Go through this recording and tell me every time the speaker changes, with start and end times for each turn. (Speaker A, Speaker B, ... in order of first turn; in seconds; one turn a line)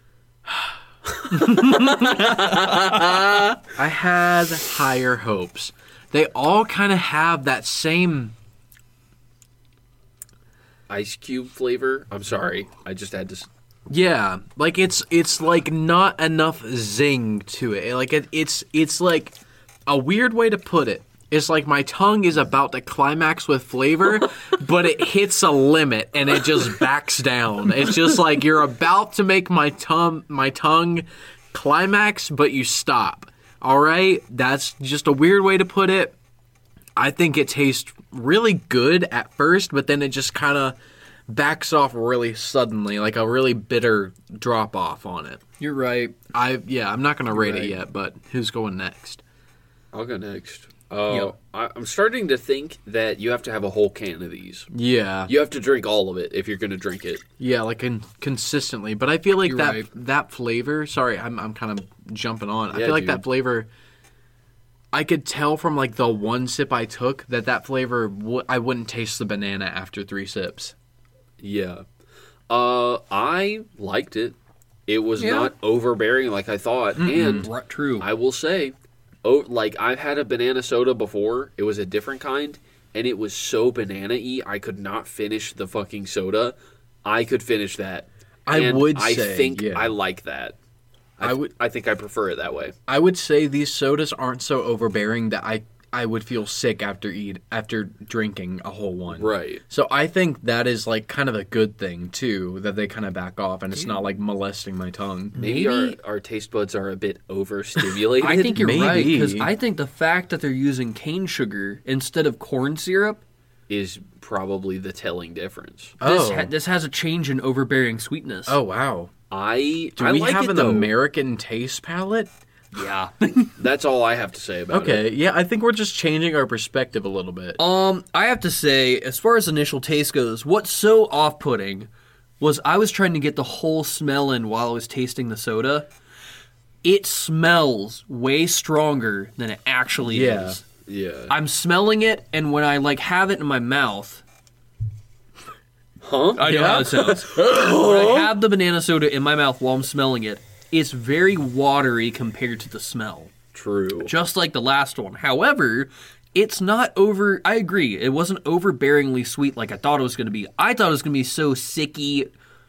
Speaker A: 1.3-3.6
Speaker B: 1.5-2.3
Speaker C: 2.1-3.2
Speaker B: 3.7-8.3
Speaker C: 10.9-13.5
Speaker B: 13.9-19.4
Speaker B: 19.9-36.2
Speaker B: 37.0-45.4
Speaker A: 45.6-46.1
Speaker B: 46.3-49.2
Speaker A: 47.3-47.8
Speaker C: 49.9-54.7
Speaker A: 51.1-51.3
Speaker B: 54.7-55.3
Speaker C: 55.3-57.2
Speaker B: 57.4-63.7
Speaker A: 59.5-59.9
Speaker C: 62.7-63.2
Speaker B: 64.9-70.8
Speaker C: 71.4-71.8
Speaker C: 72.5-90.6
Speaker A: 75.2-75.5
Speaker A: 77.0-78.1
Speaker B: 77.0-77.5
Speaker B: 88.5-90.0
Speaker C: 91.2-92.8
Speaker B: 91.2-91.5
Speaker B: 92.9-105.3
Speaker C: 99.1-99.6
Speaker A: 105.3-106.0
Speaker C: 105.3-108.4
Speaker A: 108.2-113.2
Speaker B: 108.2-109.5
Speaker C: 113.7-116.0
Speaker B: 116.0-116.5
Speaker A: 116.0-118.6
Speaker B: 118.5-119.1
Speaker C: 119.3-120.9
Speaker B: 120.0-122.3
Speaker A: 122.7-123.5
Speaker C: 123.6-125.0
Speaker B: 124.7-127.6
Speaker A: 127.6-131.9
Speaker A: 132.4-135.9
Speaker A: 136.8-140.6
Speaker B: 140.1-140.6
Speaker C: 140.9-141.3
Speaker A: 141.3-144.2
Speaker C: 146.0-147.6
Speaker A: 146.4-153.3
Speaker B: 146.4-148.3
Speaker C: 153.5-154.1
Speaker A: 154.0-162.3